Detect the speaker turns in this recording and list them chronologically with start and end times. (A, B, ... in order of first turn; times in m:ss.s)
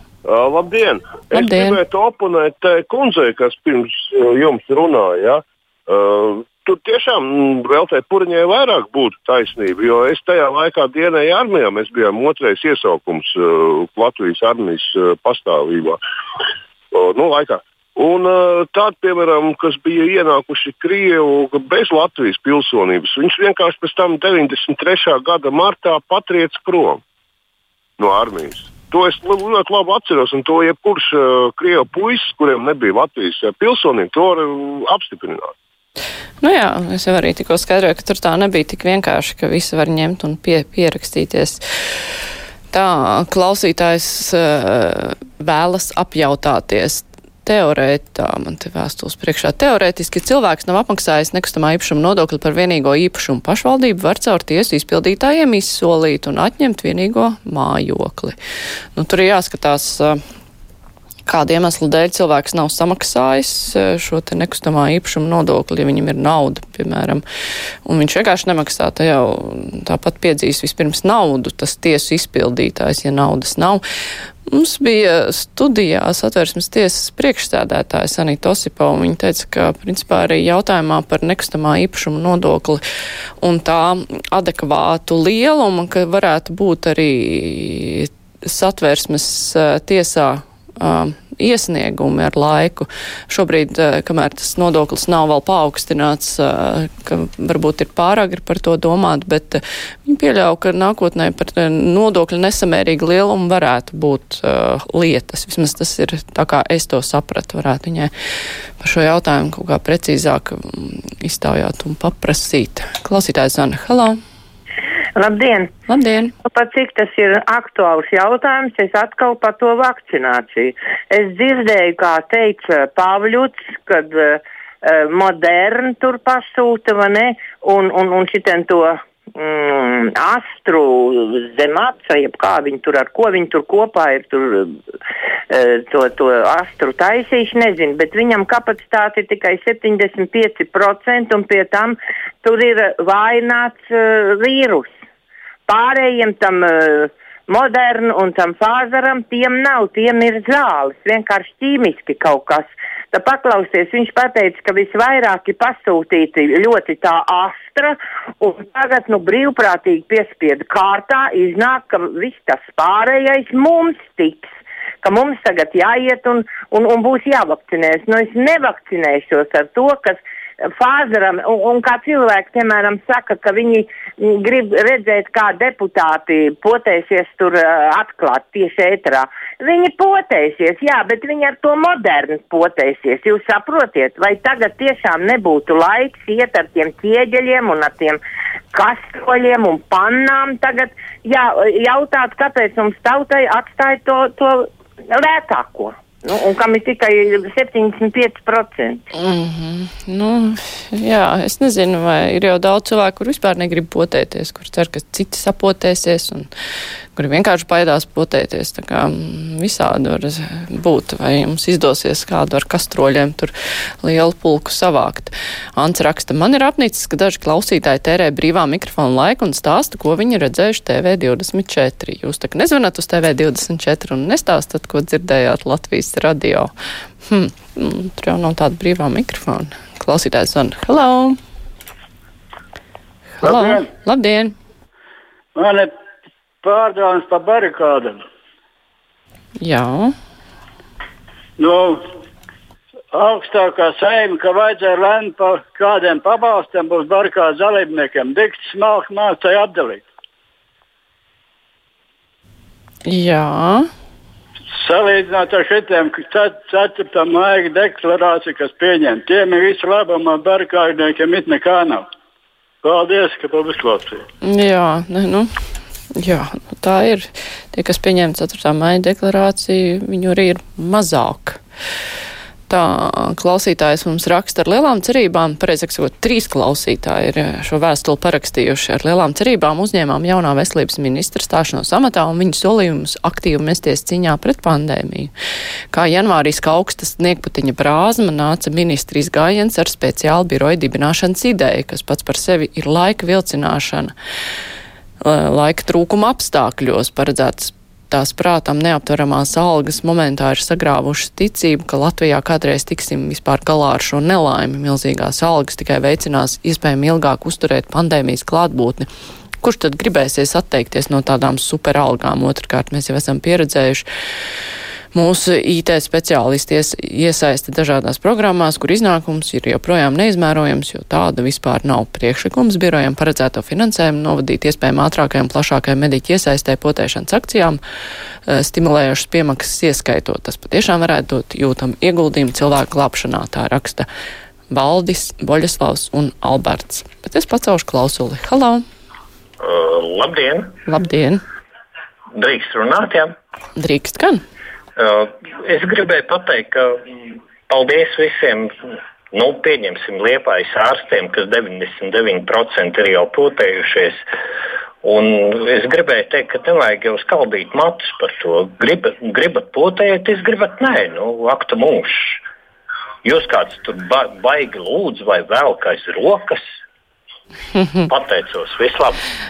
0:00.2-0:16.0 A
0:01.3-0:01.8 B
0:16.9-0:27.0 A
0:28.0-0:35.5 A
0:36.4-0:41.6 B
0:42.7-0:58.4 B
0:59.0-1:00.2 B
1:01.3-1:07.2 B
1:07.8-1:13.8 B
1:14.5-1:22.8 B
1:23.4-1:48.1 B
1:48.8-1:54.2 B
1:55.2-1:55.7 C
1:55.9-1:56.3 B
1:56.4-2:14.8 C
2:15.5-2:24.9 C
2:25.7-2:44.5 C
2:45.0-2:50.2 C
2:50.8-3:08.2 C
3:08.7-3:19.0 C
3:19.1-3:26.5 B
3:27.2-3:46.7 B
3:47.3-3:51.4 B
3:53.4-3:54.6 B
3:53.4-3:53.9 D
3:55.6-3:55.9 D
3:56.6-3:58.2 D
3:59.6-4:00.1 B
4:01.6-4:02.0 D
4:03.1-4:10.0 D
4:13.1-4:13.9 B
4:14.8-4:22.1 D
4:22.8-4:24.2 D
4:24.4-4:25.5 B
4:26.2-4:31.6 B
4:32.7-4:45.3 B
4:45.9-4:54.1 B
4:55.2-5:09.1 B
5:09.6-5:14.1 B
5:15.1-5:27.8 B
5:28.5-5:34.1 B
5:34.7-5:38.8 B
5:39.6-5:40.8 E
5:40.9-5:41.4 B
5:42.3-5:43.4 E
5:43.8-5:44.4 B
5:45.0-5:48.7 E
5:49.3-5:54.2 E
5:55.0-6:02.4 E
6:03.2-6:06.6 E
6:08.1-6:09.2 E